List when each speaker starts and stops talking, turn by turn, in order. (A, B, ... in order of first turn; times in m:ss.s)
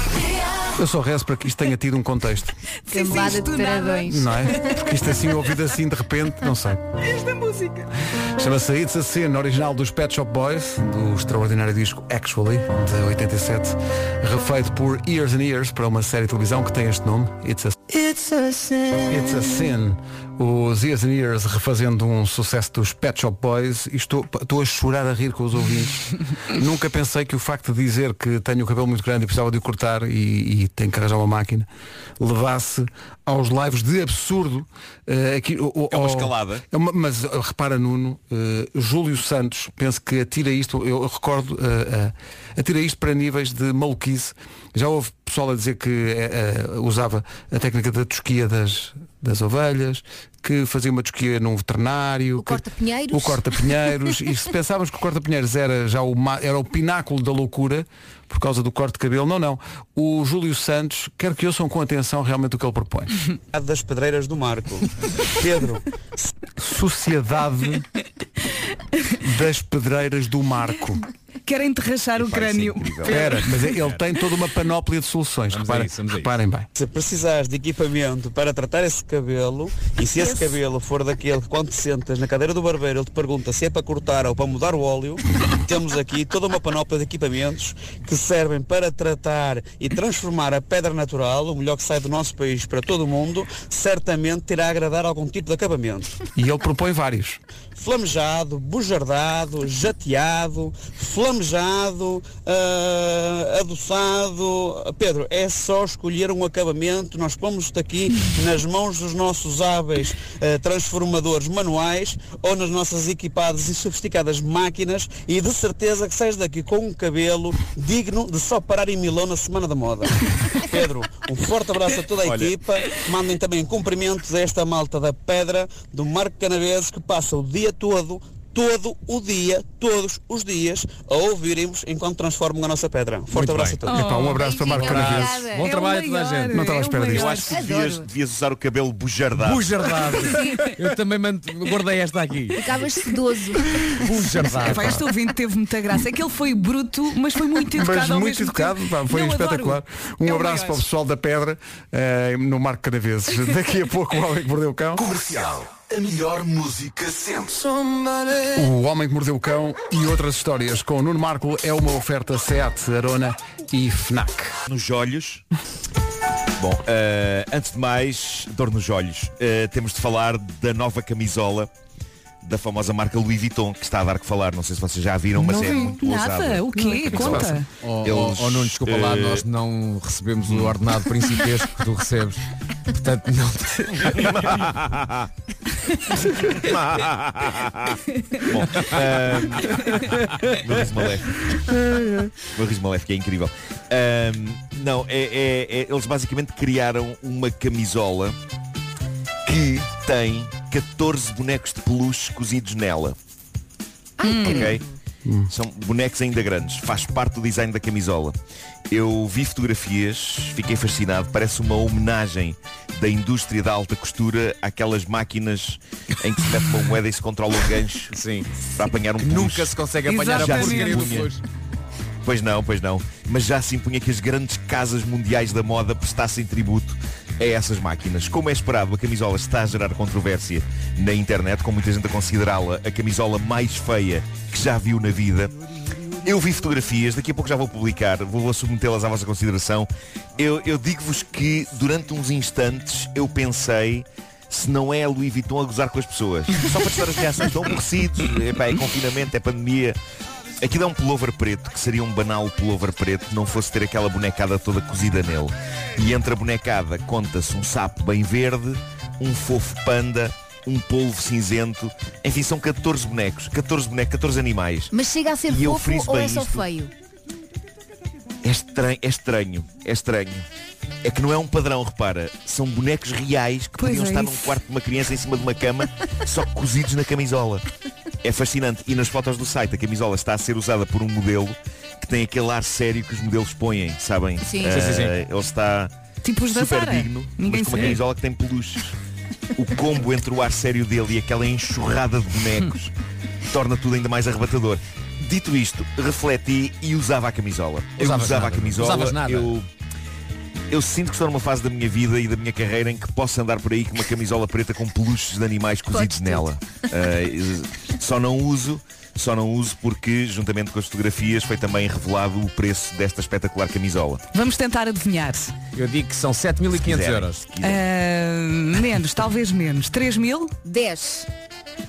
0:00.7-0:02.6 A
0:02.9-0:04.1 B
0:02.9-0:04.8 C
0:04.1-0:06.8 A
0:07.1-0:07.8 B
0:08.3-0:17.8 A
0:19.0-0:31.7 A
0:32.2-1:03.1 A
0:35.9-0:36.6 D
0:52.4-0:53.9 C
1:03.5-1:05.8 E
1:06.6-1:07.8 A
1:09.2-1:11.0 A
1:11.4-1:13.4 B
1:12.3-1:13.2 F
1:13.1-1:16.7 A
1:15.5-1:16.3 F
1:16.7-1:36.2 E
1:36.4-1:37.4 A
1:37.8-2:13.9 E
2:02.2-2:02.5 D
2:13.3-2:13.8 F
2:13.8-2:14.7 B
2:13.9-2:15.4 A
2:14.4-2:15.7 C
2:14.7-2:16.6 F
2:15.4-2:17.5 B
2:16.5-2:17.4 A
2:17.1-2:19.9 D
2:17.4-2:18.1 C
2:19.3-2:22.7 F
2:20.2-2:20.7 C
2:22.5-2:24.6 C
2:23.9-2:25.0 F
2:24.6-2:30.8 B
2:27.7-2:35.1 A
2:35.0-2:38.5 G
2:38.5-2:44.6 A
2:44.6-2:45.4 D
2:46.6-2:51.7 D
2:52.4-2:59.4 D
2:55.4-2:57.7 B
2:56.8-2:57.5 A
2:57.8-3:04.5 F
3:00.4-3:00.8 D
3:04.1-3:05.3 D
3:06.6-3:11.3 D
3:12.4-3:18.4 D
3:19.4-3:23.2 D
3:24.2-3:24.8 C
3:24.2-3:24.7 B
3:24.4-3:24.8 D
3:25.2-3:25.5 A
3:25.5-3:28.4 D
3:28.9-3:38.1 D
3:38.1-3:38.5 F
3:38.8-3:41.3 D
3:39.2-3:41.4 F
3:40.0-3:41.2 B
3:42.2-3:55.5 D
3:56.2-4:10.0 D
4:10.6-4:24.9 D
4:24.9-4:26.9 C
4:25.4-4:26.7 D
4:28.4-4:30.4 D
4:31.0-4:37.6 D
4:33.8-4:34.5 B
4:38.2-4:45.9 D
4:44.4-4:44.9 C
4:44.6-4:45.2 F
4:46.2-4:48.0 B
4:46.5-4:49.0 D
4:49.6-4:52.9 D
4:53.5-4:59.7 D
4:58.0-4:59.6 F
5:00.7-5:14.2 D
5:05.9-5:06.5 C
5:14.3-5:15.5 B
5:15.7-5:17.4 F
5:16.7-5:17.8 D
5:17.6-5:20.5 B
5:20.6-5:21.3 C